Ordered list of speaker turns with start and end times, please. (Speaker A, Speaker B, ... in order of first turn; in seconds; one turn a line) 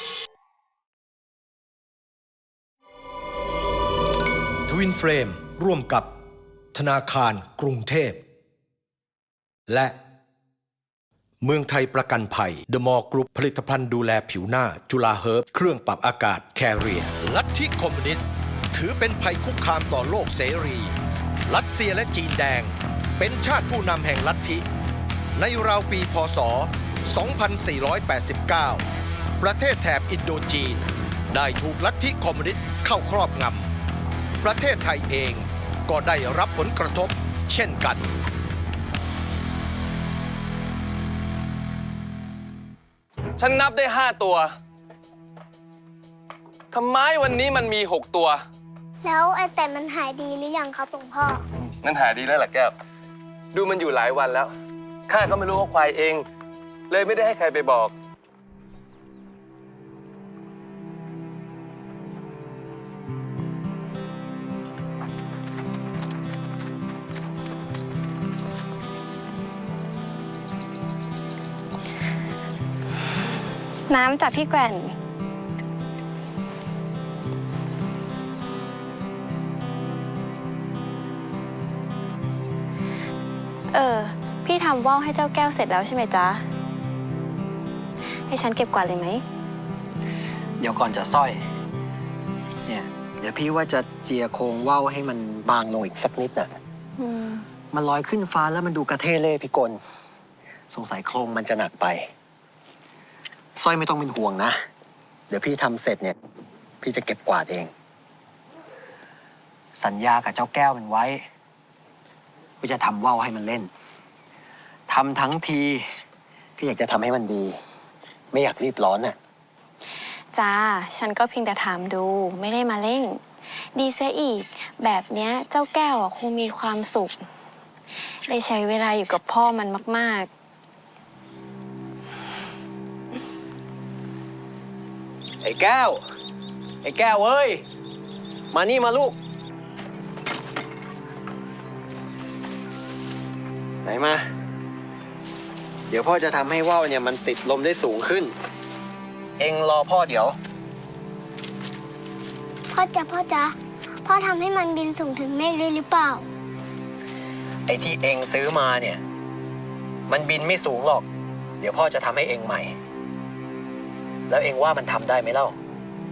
Speaker A: 4.7-6.1
Speaker A: 6.7-8.2
Speaker A: 9.7-10.0
Speaker A: 11.4-20.9
Speaker A: 21.5-24.6
Speaker A: 25.4-28.8
Speaker A: 29.4-33.7
Speaker A: 34.4-38.1
Speaker B: 43.4-44.5
Speaker B: 46.7-48.4
Speaker C: 49.0-51.4
Speaker B: 51.8-52.7
Speaker B: 53.5-54.5
Speaker B: 55.1-56.2
Speaker B: 56.9-57.9
Speaker D: 73.9-74.9
Speaker D: 83.7-86.4
Speaker D: 88.3-89.2
Speaker E: 90.6-91.4
Speaker E: 92.7-96.5
Speaker D: 97.0-97.4
Speaker E: 97.7-99.8
Speaker E: 100.7-102.1
Speaker E: 103.6-104.6
Speaker E: 105.3-106.1
Speaker E: 106.8-107.7
Speaker E: 109.8-111.2
Speaker E: 112.6-113.7
Speaker E: 114.9-115.8
Speaker E: 116.6-117.6
Speaker E: 118.3-119.2
Speaker D: 120.3-127.2
Speaker D: 128.2-130.3
Speaker E: 135.4-136.0
Speaker E: 136.8-137.6
Speaker E: 138.5-139.2
Speaker E: 143.8-144.2
Speaker E: 145.9-148.3
Speaker E: 149.4-150.4
Speaker C: 152.7-156.3
Speaker E: 157.7-159.0
Speaker E: 160.1-161.1
Speaker E: 161.6-162.7
Speaker E: 164.3-165.5